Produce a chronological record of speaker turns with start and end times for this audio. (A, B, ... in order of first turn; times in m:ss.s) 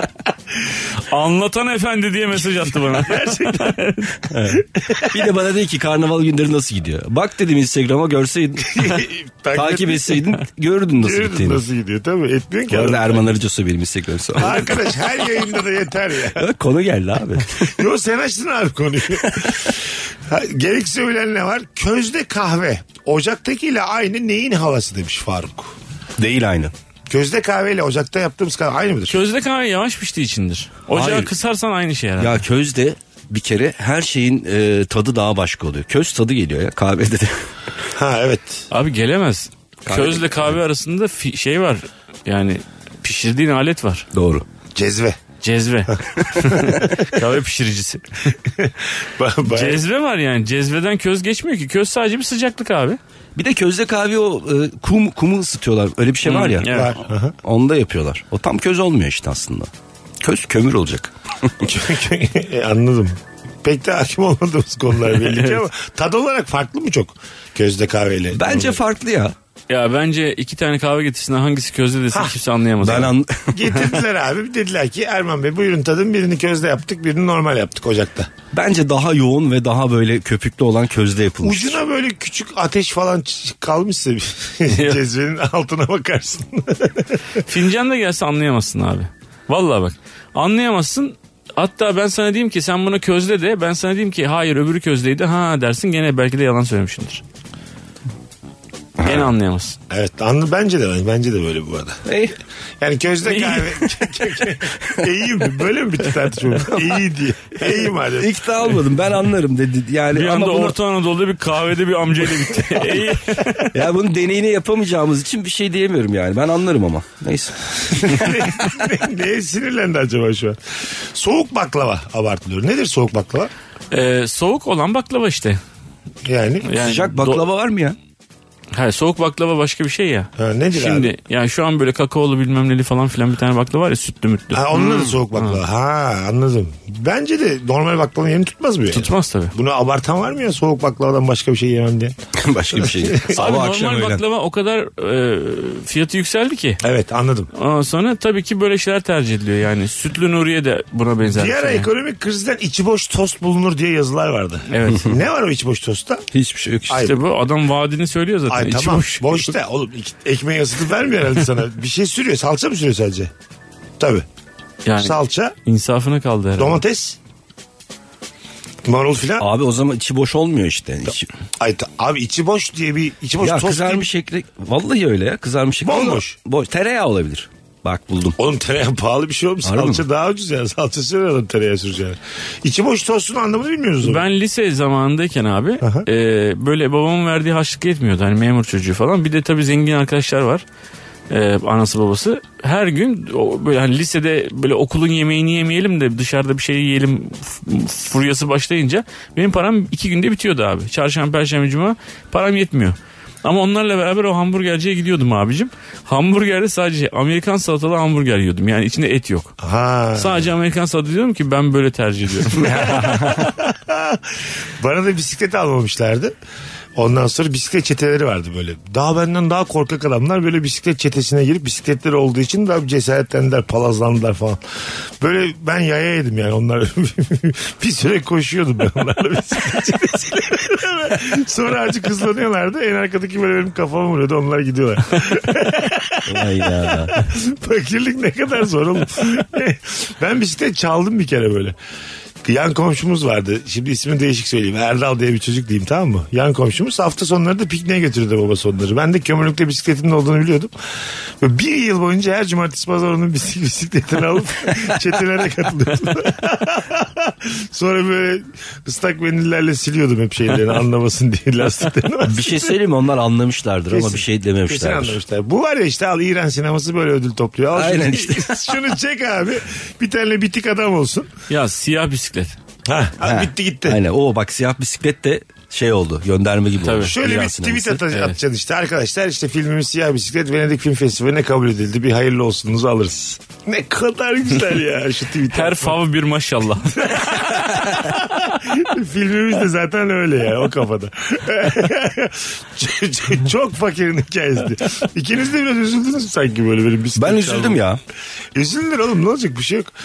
0:01.0-0:04.2 A
0:02.6-0:03.8 B
0:04.3-0:09.0 C
0:04.6-0:05.3 B
0:08.7-0:10.3 B
0:09.5-0:11.6 C
0:11.0-0:13.3 B
0:12.7-0:14.8 C
0:14.4-0:16.5 B
0:16.3-0:17.8 C
0:17.6-0:25.8 B
0:19.2-0:19.6 C
0:26.2-0:26.7 C
0:27.1-0:29.2 B
0:29.1-0:32.4 A
0:30.9-0:31.3 C
0:32.2-0:37.4 C
0:37.9-0:38.7 B
0:38.7-0:44.1 A
0:39.8-0:40.6 C
0:44.1-0:44.4 C
0:44.7-0:45.2 B
0:45.4-0:48.4 A
0:46.0-0:47.0 B
0:48.4-0:49.8 B
0:49.4-0:53.0 A
0:53.4-0:56.8 C
0:56.2-0:57.0 A
0:56.6-0:57.3 B
0:57.4-0:59.7 C
1:00.2-1:01.7 C
1:01.6-1:08.8 B
1:05.2-1:05.6 A
1:08.3-1:09.3 C
1:09.7-1:13.1 A
1:12.1-1:12.4 B
1:12.8-1:13.8 C
1:13.5-1:18.3 B
1:18.5-1:21.8 C
1:21.4-1:27.2 B
1:24.7-1:25.0 A
1:27.4-1:37.2 A
1:39.0-1:39.3 C
1:39.0-1:39.8 A
1:39.9-1:42.0 B
1:42.0-1:42.3 C
1:42.8-1:48.4 B
1:43.2-1:44.1 A
1:46.5-1:47.0 C
1:47.6-1:50.8 C
1:50.1-1:53.7 A
1:53.7-1:57.6 C
1:57.8-2:03.5 B
2:03.9-2:05.6 A
2:06.2-2:06.7 B
2:06.6-2:07.4 A
2:06.8-2:08.0 C
2:08.7-2:15.6 A
2:10.4-2:11.1 B
2:14.5-2:22.2 B
2:18.9-2:19.5 A
2:22.4-2:24.2 C
2:22.7-2:23.3 B
2:23.3-2:26.8 A
2:26.8-2:27.5 B
2:27.5-2:31.9 A
2:31.3-2:36.2 B
2:34.7-2:35.1 A
2:36.3-2:37.1 C
2:36.9-2:37.2 B
2:37.0-2:39.5 A
2:38.5-2:43.3 B
2:44.0-2:44.2 B
2:44.8-2:46.8 A
2:45.0-2:45.5 B
2:46.6-2:47.2 B
2:48.8-2:49.4 B
2:49.4-2:51.3 C
2:51.6-2:54.1 B
2:53.4-2:58.4 C
2:55.8-2:56.4 B
2:58.4-3:04.2 B
2:59.6-3:00.0 C
3:04.0-3:10.6 A
3:05.8-3:06.1 B
3:11.3-3:29.5 A
3:29.6-3:30.5 B
3:30.1-3:33.4 A
3:32.6-3:33.5 C
3:32.6-3:36.3 B
3:37.0-3:44.6 B
3:45.2-4:01.8 B
3:56.2-3:57.2 C
4:02.4-4:10.7 B
4:11.4-4:22.8 B
4:22.2-4:25.2 C
4:23.9-4:31.3 B
4:27.7-4:28.8 C
4:31.5-4:32.6 A
4:32.9-4:34.0 B
4:33.2-4:38.0 C
4:36.8-4:37.2 A
4:37.1-4:46.0 B
4:38.1-4:38.4 A
4:45.5-4:47.2 A
4:46.9-4:57.8 B
4:57.2-4:58.0 C
4:58.5-4:59.9 B